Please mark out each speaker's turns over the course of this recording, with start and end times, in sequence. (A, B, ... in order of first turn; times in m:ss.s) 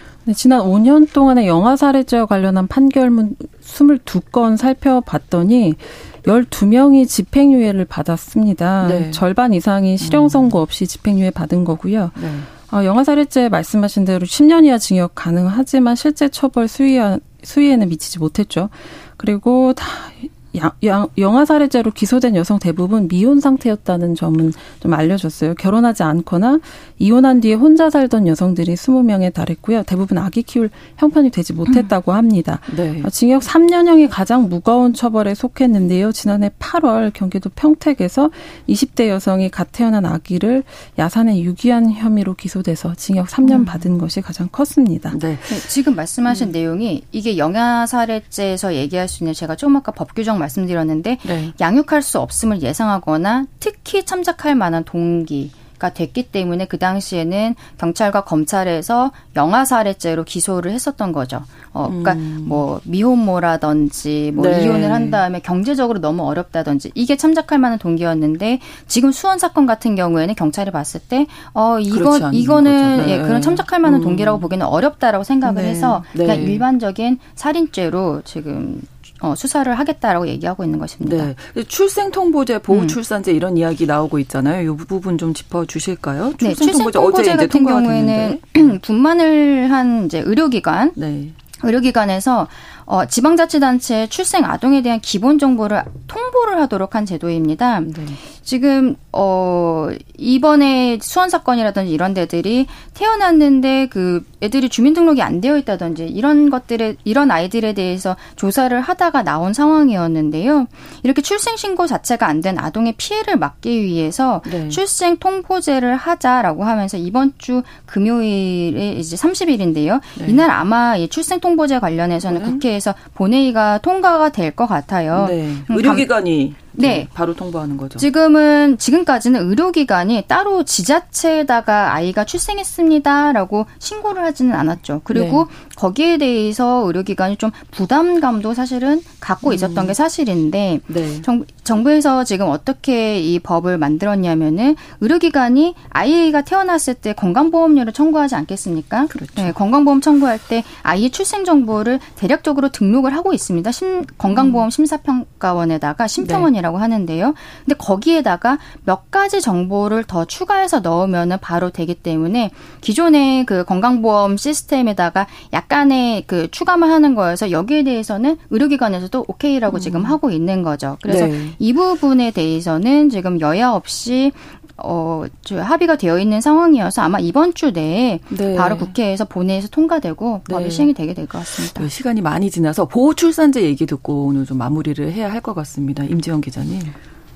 0:00.2-0:45.2 A
0:08.8-0:09.2 B
0:10.0-0:10.5 B
0:12.2-0:12.5 B
0:32.7-0:33.1 B
0:43.5-0:43.8 B
0:45.1-0:45.6 B
0:45.5-1:21.3 C
0:51.2-0:51.5 B
1:01.9-1:02.6 B
1:04.4-1:05.2 B
1:11.9-1:14.5 B
1:15.5-1:16.0 A
1:16.1-1:16.6 B
1:21.0-1:28.7 B
1:22.7-1:23.0 C
1:26.4-1:31.0 C
1:31.0-1:31.4 B
1:31.6-2:07.1 C
1:37.8-1:38.2 B
1:54.4-1:54.8 B
2:00.2-2:00.4 B
2:02.2-2:02.6 B
2:05.1-2:08.0 B
2:08.0-3:01.9 C
2:15.1-2:15.5 B
2:19.4-2:19.9 B
2:20.9-2:21.2 B
2:29.1-2:29.5 B
2:34.3-2:34.6 B
2:36.2-2:36.5 B
2:49.7-2:50.2 B
2:51.0-2:51.6 B
2:58.3-2:58.9 B
3:00.5-3:00.9 B
3:01.6-3:06.9 B